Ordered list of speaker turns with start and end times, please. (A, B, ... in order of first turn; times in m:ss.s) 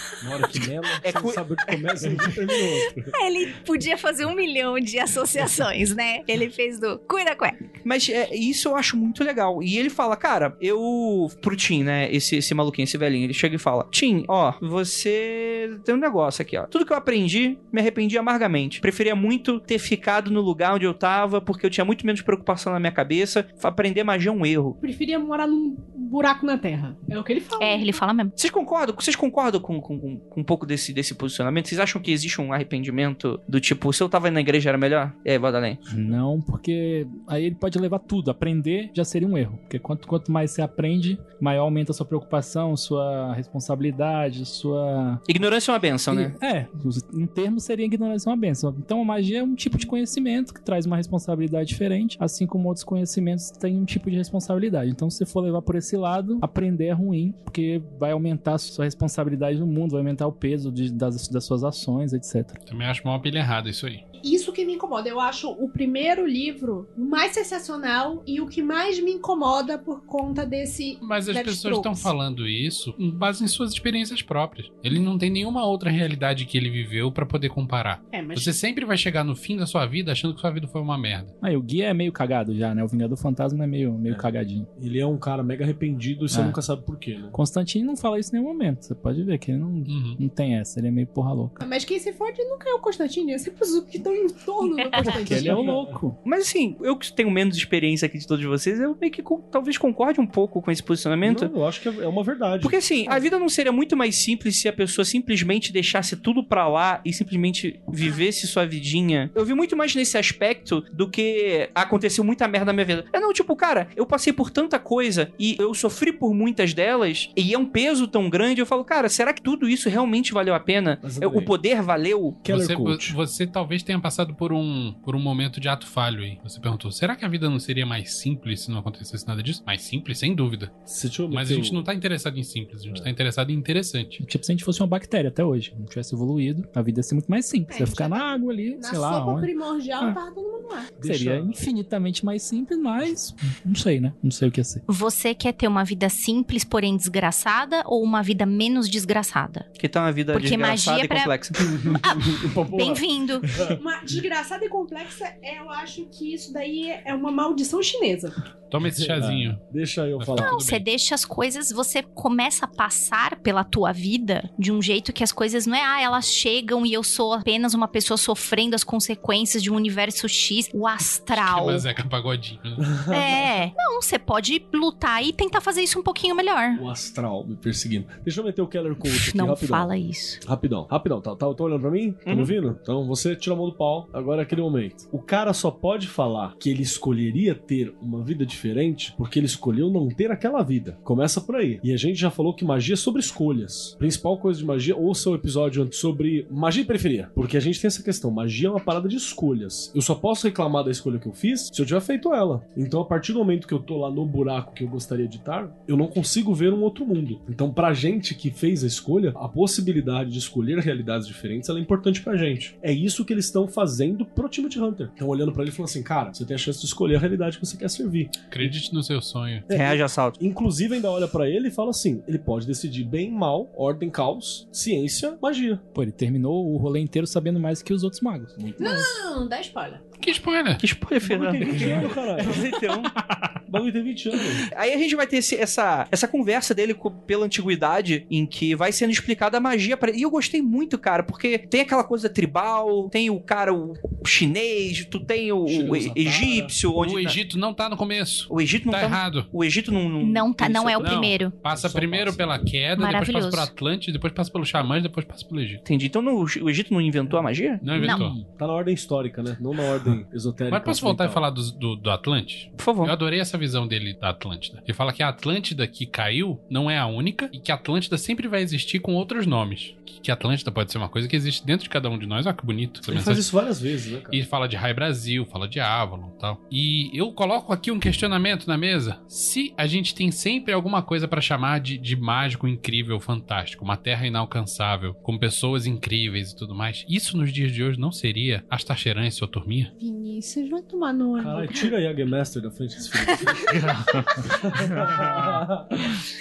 0:00.2-0:03.1 A
0:01.0-0:02.1 B
0:02.7-0:07.7 C
0:07.8-0:24.8 B
0:24.8-0:28.0 D
0:27.6-0:28.3 C
0:28.4-0:35.8 B
0:35.9-0:45.2 E
0:45.3-0:46.4 B
0:46.1-1:02.6 E
1:02.7-1:04.0 F
1:04.2-1:12.1 D
1:11.0-1:21.3 F
1:18.1-1:18.6 D
1:21.4-1:24.7 E
1:24.1-1:27.4 A
1:26.3-1:26.6 E
1:27.3-1:31.6 E
1:29.9-1:30.2 F
1:31.6-1:35.7 D
1:34.8-1:35.1 C
1:35.1-1:36.2 E
1:35.3-1:35.9 A
1:36.2-1:41.5 B
1:41.2-1:42.8 A
1:42.6-2:02.4 B
1:48.0-1:48.3 D
2:01.0-2:01.5 A
2:02.4-2:03.2 A
2:02.5-2:10.7 F
2:10.9-2:11.8 A
2:11.3-2:14.2 F
2:14.2-2:20.2 E
2:17.7-2:20.9 D
2:21.0-2:21.6 A
2:21.0-2:24.8 E
2:24.9-2:29.7 C
2:29.8-2:31.7 B
2:30.3-2:31.4 C
2:31.6-2:33.8 A
2:32.0-2:33.5 C
2:33.7-2:38.4 D
2:38.7-2:39.6 F
2:38.8-2:40.6 A
2:39.2-2:39.6 E
2:40.2-2:40.8 F
2:40.3-2:51.9 C
2:51.3-2:53.0 F
2:52.9-2:53.5 A
2:53.1-2:56.8 C
2:56.7-2:59.9 A
2:59.0-3:00.4 C
3:00.4-3:38.8 A
3:02.3-3:02.5 B
3:38.5-3:39.7 F
3:39.7-3:45.8 A
3:39.7-3:40.4 B
3:45.9-3:48.6 E
3:48.6-3:49.1 A
3:48.8-3:50.0 D
3:50.2-3:50.8 F
3:50.8-3:53.2 B
3:51.2-3:52.7 A
3:53.2-3:53.6 E
3:53.7-3:54.7 A
3:54.7-4:07.4 B
4:05.6-4:06.8 A
4:07.0-4:09.5 F
4:08.5-4:11.1 B
4:10.2-4:11.6 C
4:11.0-4:15.8 F
4:11.7-4:12.7 A
4:13.0-4:13.7 C
4:15.8-4:17.9 B
4:17.8-4:18.4 F
4:18.0-4:18.2 C
4:18.0-4:18.4 E
4:18.4-4:21.4 A
4:20.7-4:33.5 F
4:22.8-4:23.1 B
4:33.1-4:34.4 A
4:34.3-4:49.9 F
4:50.0-4:51.9 D
4:51.4-4:53.9 A
4:53.7-4:55.7 E
4:54.5-4:55.9 A